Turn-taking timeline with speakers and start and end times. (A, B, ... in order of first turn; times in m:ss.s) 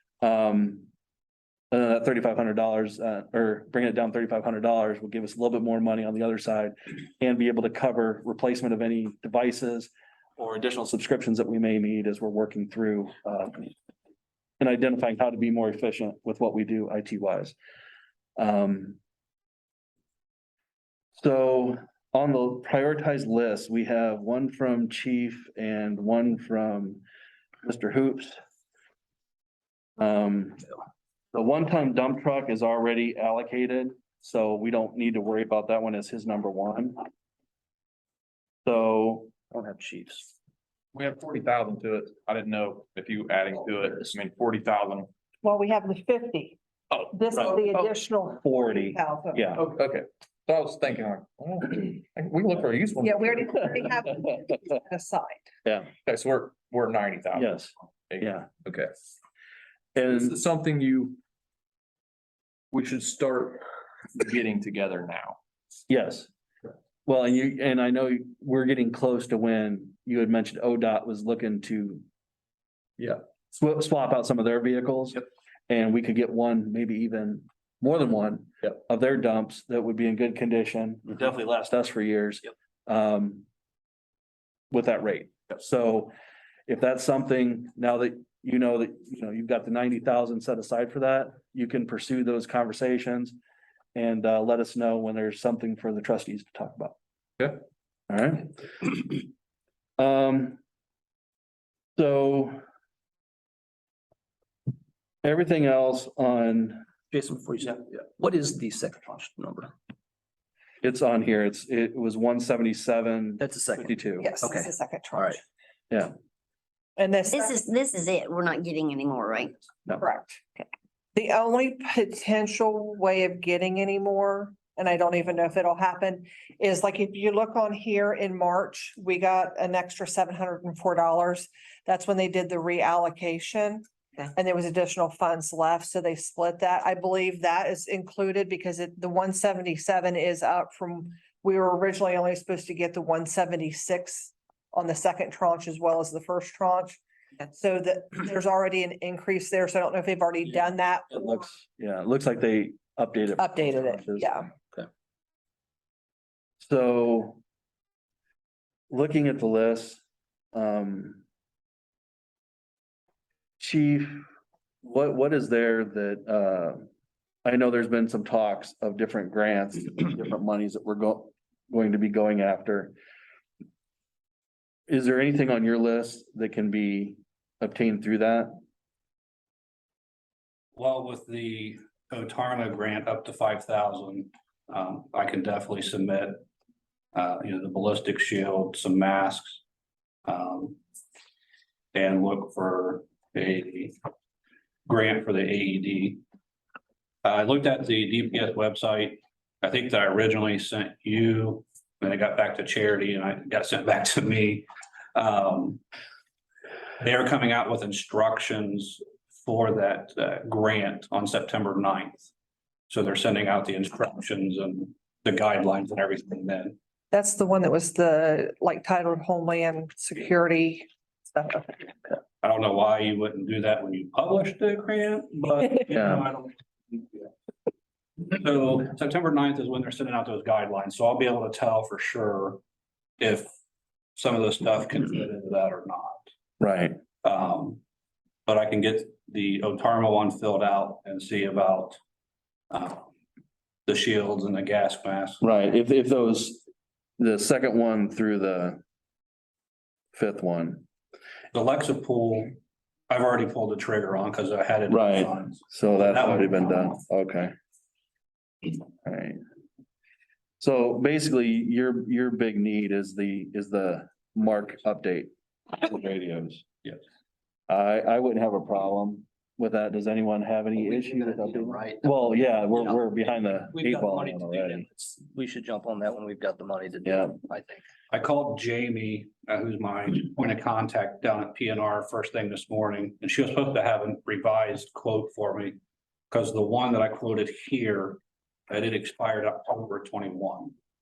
0:00.2-0:00.9 A
0:01.7-0:13.7 A
0:14.6-0:17.6 A
0:18.4-0:19.0 A
0:21.2-0:27.0 A
0:27.6-0:28.4 A
0:30.0-0:30.7 A
0:31.3-0:37.0 A
0:38.6-0:39.3 A
0:39.5-0:40.3 B
0:40.9-0:45.1 C
0:45.4-0:46.6 D
0:47.1-0:49.5 D
0:47.4-0:47.8 A
0:48.4-0:49.6 A
0:49.6-0:53.8 C
0:53.0-0:55.5 D
0:56.0-0:57.6 C
0:57.3-0:58.5 A
0:58.1-0:58.9 C
1:00.0-1:00.3 A
1:00.1-1:01.2 C
1:02.7-1:03.6 C
1:04.2-1:05.4 C
1:05.9-1:06.3 A
1:07.1-1:12.0 A
1:13.5-1:23.5 A
1:24.7-1:26.1 A
1:26.7-1:33.4 A
1:34.0-1:37.0 A
1:38.1-1:39.1 A
1:40.0-1:40.6 A
1:42.0-1:42.6 A
1:45.2-1:46.8 A
1:47.1-1:49.7 B
1:50.8-1:54.3 A
1:53.4-1:55.4 B
1:54.2-1:55.4 D
1:57.0-1:57.6 D
1:57.3-1:59.5 E
2:00.0-2:00.4 D
2:01.2-2:31.5 D
2:31.3-2:34.3 A
2:33.4-2:34.5 D
2:36.6-2:37.4 A
2:38.9-2:40.0 A
2:40.5-2:41.2 A
2:43.6-2:44.2 A
2:44.8-2:46.9 A
2:47.4-2:52.9 A
2:54.9-2:58.5 A
3:00.8-3:06.4 F
3:07.1-3:09.6 F
3:10.3-3:10.8 F
3:11.9-3:14.0 F
3:14.9-3:16.2 F
3:17.2-3:25.8 F
3:27.0-3:32.3 F
3:32.9-3:36.8 F
3:37.1-3:41.9 D
3:42.4-3:47.3 F
3:45.9-3:46.2 A
3:48.3-3:52.6 F
3:53.2-3:53.5 F
3:54.2-3:56.2 F
3:56.6-3:57.0 A
3:57.2-3:57.8 F
3:58.5-4:02.0 F
4:02.7-4:03.1 F
4:03.9-4:05.4 F
4:05.4-4:06.6 A
4:07.2-4:08.8 A
4:10.1-4:10.8 A
4:11.5-4:12.5 F
4:13.1-4:16.9 F
4:14.9-4:17.5 A
4:19.0-4:19.4 A
4:20.6-4:26.7 A
4:27.7-4:34.8 A
4:30.7-4:33.0 B
4:33.7-4:37.8 B
4:37.0-4:37.3 A
4:38.1-4:45.8 F
4:46.3-4:50.7 F